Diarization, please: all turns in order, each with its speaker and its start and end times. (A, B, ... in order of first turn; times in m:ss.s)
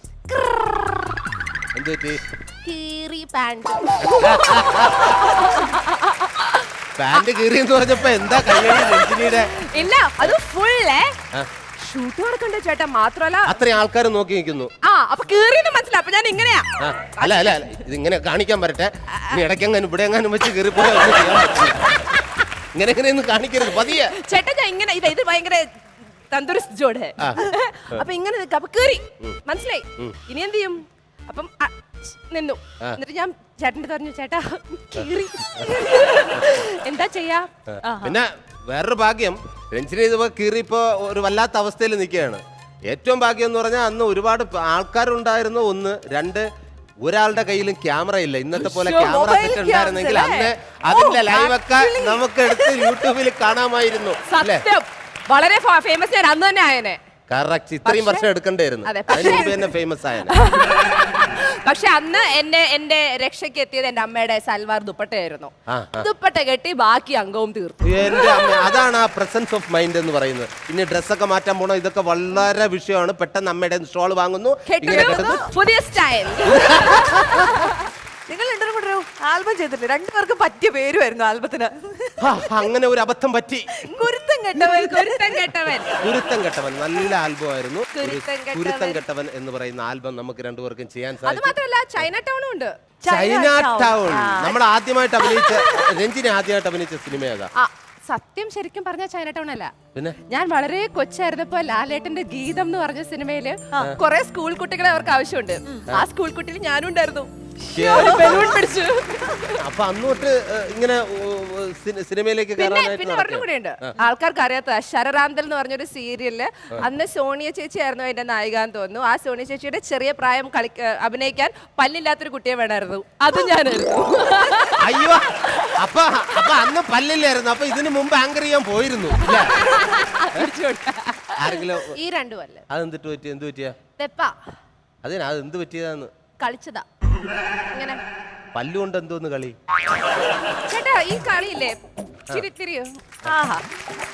0:00.3-0:01.2 A
0:01.7-0:02.2 B
0:02.6-0:07.3 A
0:04.0-0:05.3 B
0:07.0-0:09.5 B
0:08.3-0:11.2 A
0:11.8-0:13.6 A
0:13.5-0:14.7 B
0:14.8-0:17.8 A
0:16.8-0:22.0 B
0:19.1-0:19.4 A
0:20.8-0:22.4 A
0:22.7-0:24.2 B
0:23.7-0:25.7 A
0:26.3-0:37.5 A
0:27.2-0:28.0 B
0:35.0-0:35.8 B
0:36.4-0:36.6 B
0:37.7-0:46.5 B
0:37.8-0:38.2 C
0:47.0-0:54.7 B
0:48.6-0:52.9 C
0:54.3-0:57.0 A
0:57.3-1:00.4 B
0:57.9-0:58.2 A
0:58.8-0:59.6 A
0:59.1-0:59.5 C
1:00.3-1:08.8 A
1:05.7-1:06.1 B
1:07.8-1:15.5 B
1:14.7-1:17.9 A
1:14.9-1:15.4 C
1:16.4-1:17.6 B
1:18.3-1:22.3 C
1:22.2-1:23.8 B
1:23.8-1:26.0 A
1:23.9-1:25.5 C
1:26.0-1:31.6 B
1:27.9-1:29.0 A
1:31.2-1:32.7 A
1:33.0-1:34.6 C
1:33.0-1:37.5 B
1:35.2-1:35.9 A
1:37.5-1:39.7 A
1:39.9-1:40.2 B
1:40.3-1:49.6 A
1:47.7-1:48.5 B
1:48.0-1:48.4 C
1:49.6-1:54.0 B
1:52.6-2:06.7 A
2:04.8-2:09.7 B
2:09.2-2:12.7 A
2:11.4-2:12.0 B
2:12.7-2:13.8 B
2:14.0-2:14.4 A
2:15.0-2:16.1 B
2:16.4-2:16.8 A
2:17.7-2:18.0 A
2:18.5-2:19.6 B
2:20.6-2:21.7 A
2:22.3-2:23.4 A
2:23.3-2:23.6 C